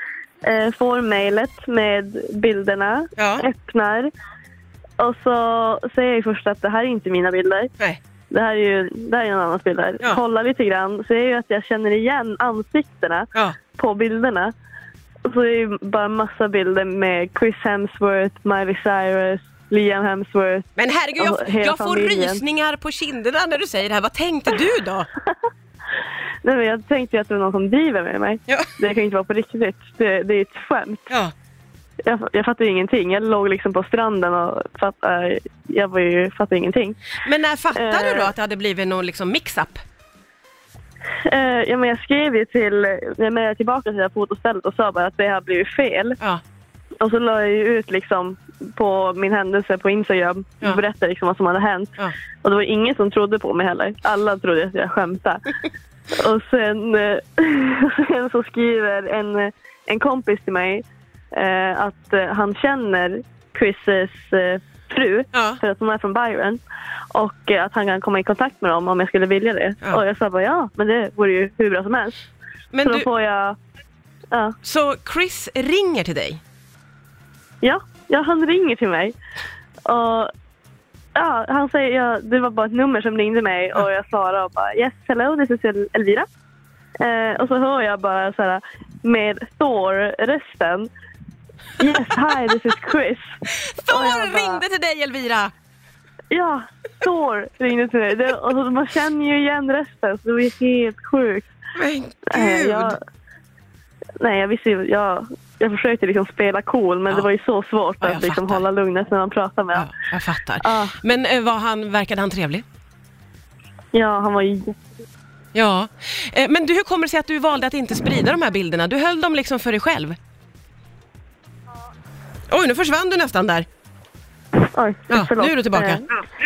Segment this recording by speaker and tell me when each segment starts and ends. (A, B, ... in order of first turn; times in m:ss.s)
0:00.4-0:04.1 A
0:03.2-0:03.4 B
0:05.0-0:07.7 A
0:08.3-0:14.5 A
0:15.2-0:22.4 A
0:20.8-0:25.1 B
0:26.4-0:31.1 A
0:32.0-0:37.0 A
0:37.2-0:39.8 B
0:37.7-0:38.3 A
0:41.2-0:46.2 A
0:47.0-0:55.5 A
0:56.1-1:06.6 A
1:05.3-1:05.6 B
1:07.1-1:12.2 A
1:12.7-1:13.1 B
1:12.8-1:13.6 A
1:14.3-1:14.6 A
1:14.6-1:16.4 B
1:17.6-1:19.1 A
1:19.8-1:20.3 A
1:21.1-1:26.2 A
1:27.0-1:30.9 A
1:31.8-1:33.3 A
1:33.5-1:35.5 B
1:33.9-1:34.6 A
1:36.3-1:41.5 A
1:41.7-1:43.0 B
1:42.3-1:43.0 A
1:44.2-1:49.9 A
1:48.0-1:48.6 B
1:49.7-1:52.6 B
1:50.6-1:51.0 A
1:53.9-1:54.8 A
1:55.5-2:00.2 B
2:02.5-2:03.6 B
2:04.7-2:06.1 A
2:05.1-2:06.0 B